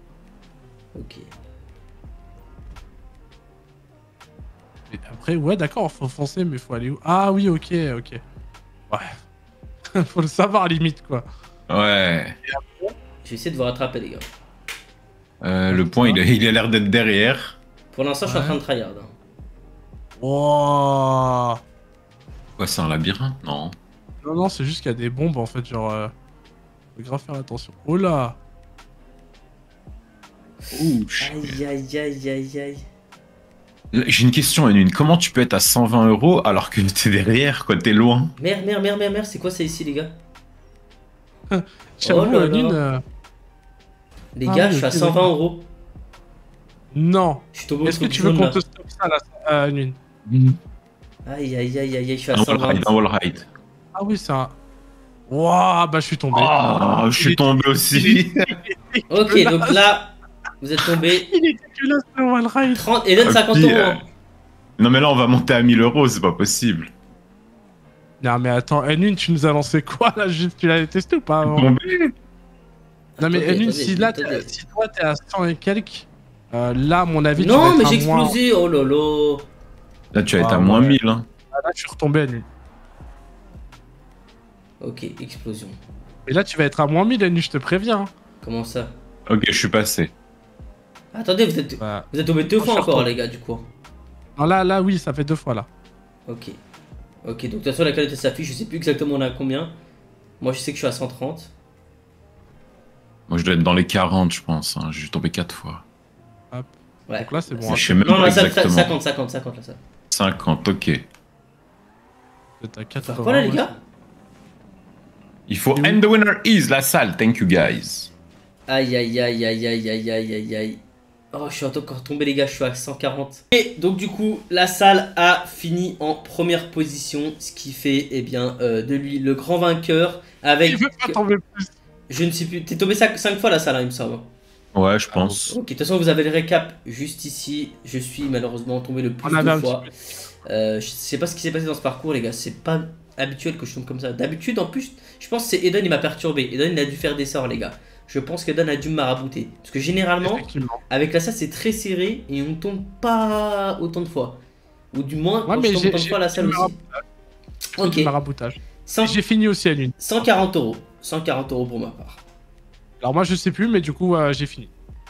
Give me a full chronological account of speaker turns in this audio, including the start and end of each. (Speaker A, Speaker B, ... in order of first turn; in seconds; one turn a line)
Speaker A: 0.9-1.3
Speaker B: 4.9-8.2
Speaker B: 8.9-9.2
Speaker B: 10.0-11.3
Speaker C: 11.7-12.4
Speaker B: 12.4-12.9
Speaker A: 13.2-14.3
Speaker C: 15.4-17.6
Speaker B: 15.7-16.2
Speaker A: 17.9-19.1
Speaker B: 18.3-18.6
Speaker B: 20.2-21.6
Speaker C: 22.6-23.8
Speaker B: 24.2-26.1
Speaker B: 27.0-28.4
Speaker C: 30.7-31.6
Speaker A: 31.2-32.9
Speaker C: 33.9-38.3
Speaker A: 38.4-40.1
Speaker B: 41.5-43.0
Speaker A: 42.0-42.8
Speaker A: 44.4-45.7
Speaker B: 44.5-45.3
Speaker B: 46.9-50.0
Speaker A: 47.5-48.6
Speaker C: 50.3-50.6
Speaker A: 51.3-52.9
Speaker C: 52.3-53.5
Speaker B: 54.0-54.5
Speaker B: 55.3-56.5
Speaker C: 56.3-58.5
Speaker B: 57.2-59.8
Speaker A: 59.1-61.3
Speaker B: 60.8-62.8
Speaker A: 62.7-64.0
Speaker C: 63.2-64.0
Speaker C: 64.8-66.9
Speaker B: 68.2-71.7
Speaker C: 71.4-72.1
Speaker A: 73.2-74.5
Speaker B: 73.2-78.4
Speaker A: 77.4-79.5
Speaker C: 80.1-81.2
Speaker B: 80.4-81.0
Speaker B: 81.5-82.5
Speaker A: 84.8-85.8
Speaker B: 86.3-88.1
Speaker A: 88.4-88.9
Speaker C: 89.3-90.1
Speaker A: 91.1-93.7
Speaker B: 91.8-93.1
Speaker B: 94.4-95.7
Speaker A: 96.3-96.6
Speaker A: 97.2-99.7
Speaker A: 100.4-101.5
Speaker C: 103.3-105.8
Speaker B: 106.5-108.2
Speaker A: 107.1-109.8
Speaker C: 107.7-109.0
Speaker C: 110.1-111.0
Speaker B: 112.6-113.8
Speaker A: 113.0-113.7
Speaker C: 115.5-118.1
Speaker B: 115.7-116.0
Speaker A: 118.7-120.8
Speaker A: 121.3-131.2
Speaker B: 130.7-131.7
Speaker A: 132.1-134.3
Speaker C: 134.7-135.6
Speaker B: 135.1-135.4
Speaker A: 135.5-139.9
Speaker B: 139.2-139.9
Speaker A: 140.4-154.4
Speaker B: 150.2-150.8
Speaker A: 154.9-156.8
Speaker B: 155.5-157.0
Speaker B: 157.8-160.0
Speaker A: 157.8-158.1
Speaker A: 158.8-159.2
Speaker A: 160.0-162.2
Speaker B: 163.0-164.7